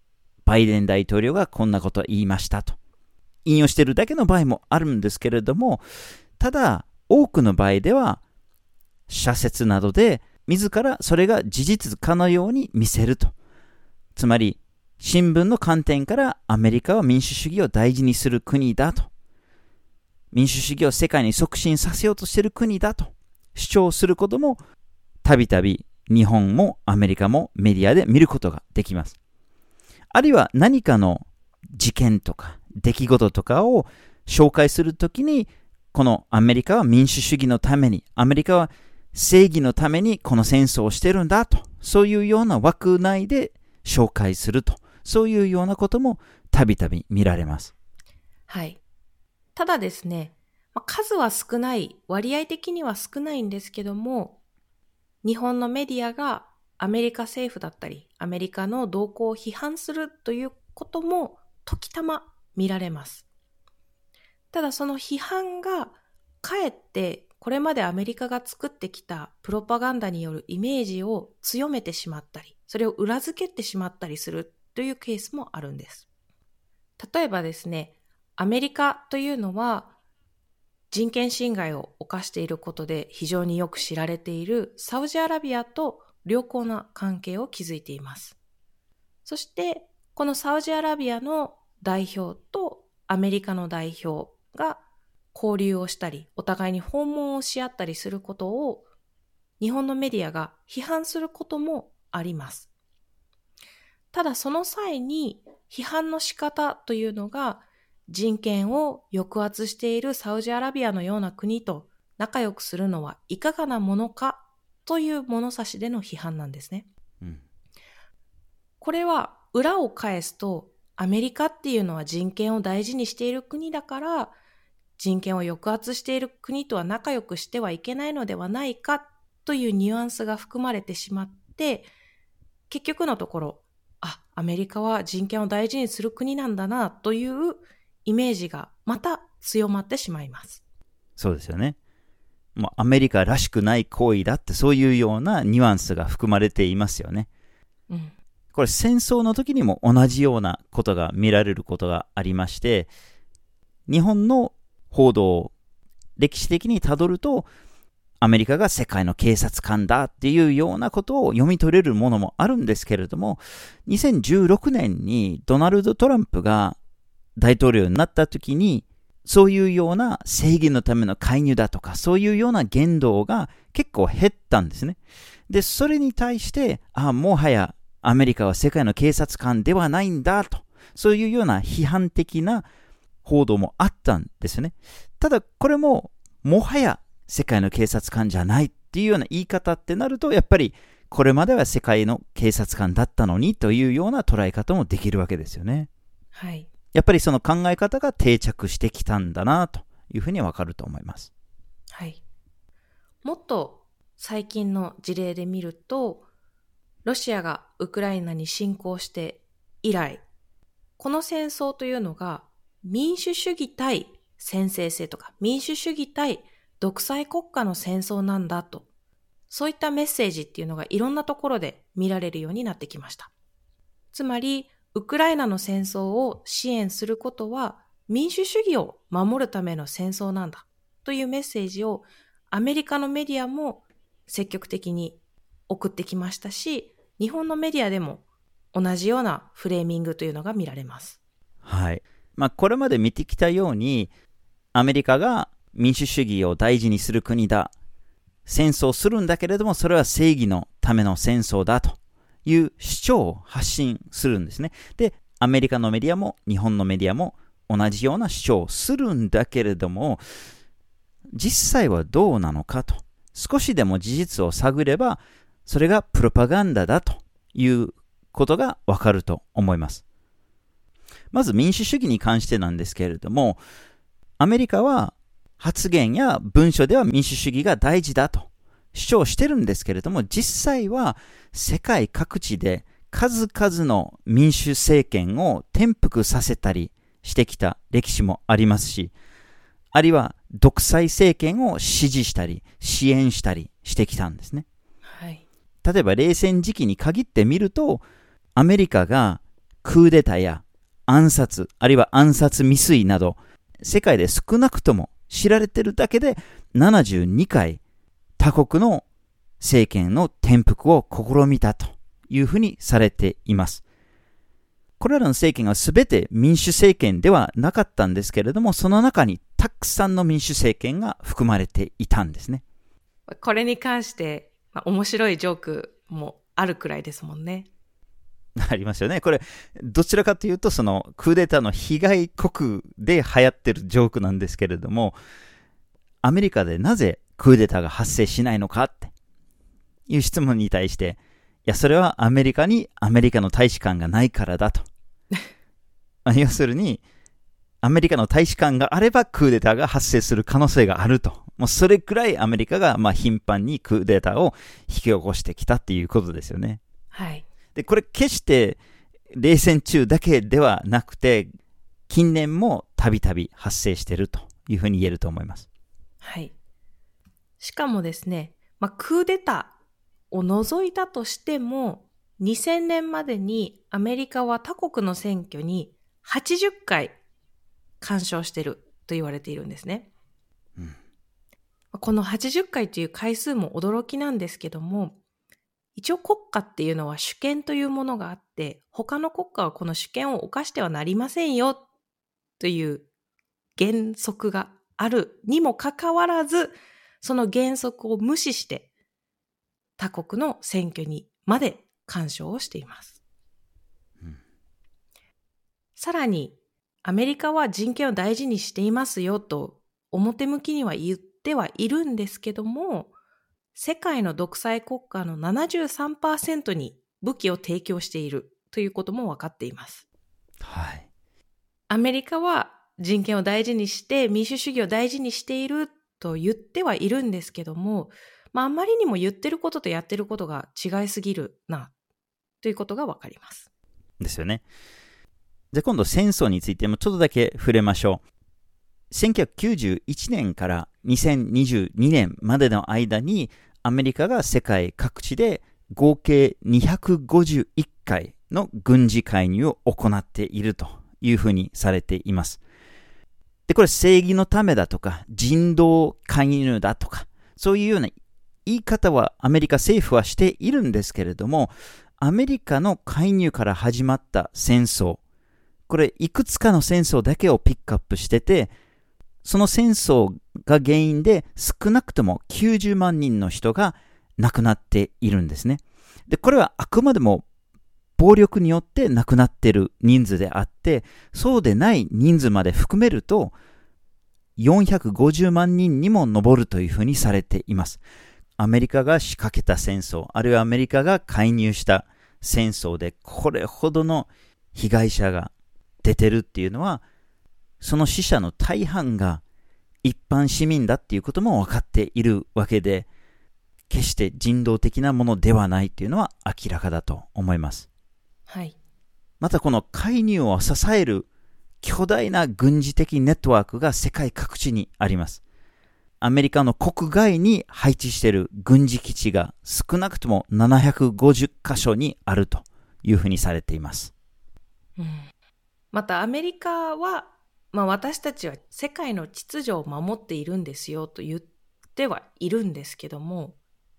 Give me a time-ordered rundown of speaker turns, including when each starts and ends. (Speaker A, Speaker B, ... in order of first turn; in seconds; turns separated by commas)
Speaker A: 0.4-2.8, Speaker A: 3.4-5.8, Speaker A: 6.4-8.2, Speaker A: 9.1-13.3, Speaker A: 14.1-19.1, Speaker A: 20.3-24.6, Speaker A: 25.2-29.1, Speaker A: 30.1-47.7, Speaker B: 48.5-48.8, Speaker B: 49.5-54.4, Speaker B: 55.2-63.2, Speaker B: 64.5-76.0, Speaker B: 77.0-79.9, Speaker B: 80.9-88.3, Speaker B: 89.2-94.8, Speaker B: 95.3-98.8, Speaker B: 99.6-102.7, Speaker B: 104.1-116.9, Speaker B: 118.8-124.3, Speaker B: 125.0-131.9, Speaker B: 132.7-140.6, Speaker A: 141.2-141.8, Speaker A: 142.6-147.3, Speaker B: 147.9-148.1, Speaker A: 148.5-152.9, Speaker A: 153.9-155.5, Speaker A: 156.2-157.5, Speaker A: 158.2-166.8, Speaker A: 167.4-175.0, Speaker A: 175.5-182.7, Speaker A: 183.2-195.9, Speaker B: 196.3-196.7, Speaker A: 196.9-201.3, Speaker B: 201.9-202.2, Speaker B: 203.2-206.2, Speaker B: 207.0-210.2, Speaker B: 211.0-218.8, Speaker B: 219.5-223.3, Speaker B: 224.1-235.2, Speaker B: 235.7-241.2, Speaker A: 241.6-244.1, Speaker A: 244.7-247.7, Speaker A: 248.4-260.2, Speaker A: 261.3-270.0, Speaker A: 271.3-273.6, Speaker A: 274.4-289.1, Speaker A: 289.9-294.6, Speaker B: 295.1-295.4, Speaker A: 295.8-298.0, Speaker A: 298.6-307.8, Speaker A: 308.4-309.0, Speaker A: 309.6-313.8, Speaker A: 315.0-322.6, Speaker B: 323.3-327.7, Speaker A: 328.6-335.2, Speaker A: 336.2-339.1, Speaker A: 340.1-344.9, Speaker A: 346.2-347.0, Speaker A: 347.8-356.8, Speaker B: 357.1-357.4, Speaker A: 357.7-358.8, Speaker A: 359.3-361.5, Speaker A: 362.1-365.7, Speaker B: 366.2-366.5, Speaker B: 367.6-369.7, Speaker B: 370.3-377.2, Speaker B: 378.0-380.1, Speaker B: 381.9-385.2, Speaker B: 385.9-391.8, Speaker B: 392.6-393.1, Speaker B: 393.8-398.9, Speaker B: 400.0-403.2, Speaker B: 406.0-413.1, Speaker B: 413.7-420.0, Speaker A: 420.6-421.1, Speaker B: 421.9-431.9, Speaker B: 432.6-433.7, Speaker A: 434.2-434.6, Speaker A: 435.7-438.2, Speaker A: 439.1-452.6, Speaker A: 453.7-458.1, Speaker A: 458.6-465.2, Speaker A: 465.9-468.7, Speaker A: 469.4-477.4, Speaker A: 478.2-483.5, Speaker A: 484.6-488.0, Speaker A: 488.6-495.5, Speaker A: 496.0-497.0, Speaker A: 497.8-499.4, Speaker A: 500.0-503.1, Speaker A: 503.9-507.9, Speaker B: 508.5-508.8, Speaker A: 509.4-511.3, Speaker A: 511.8-515.4, Speaker A: 516.2-524.1, Speaker B: 525.0-525.3, Speaker B: 525.9-533.5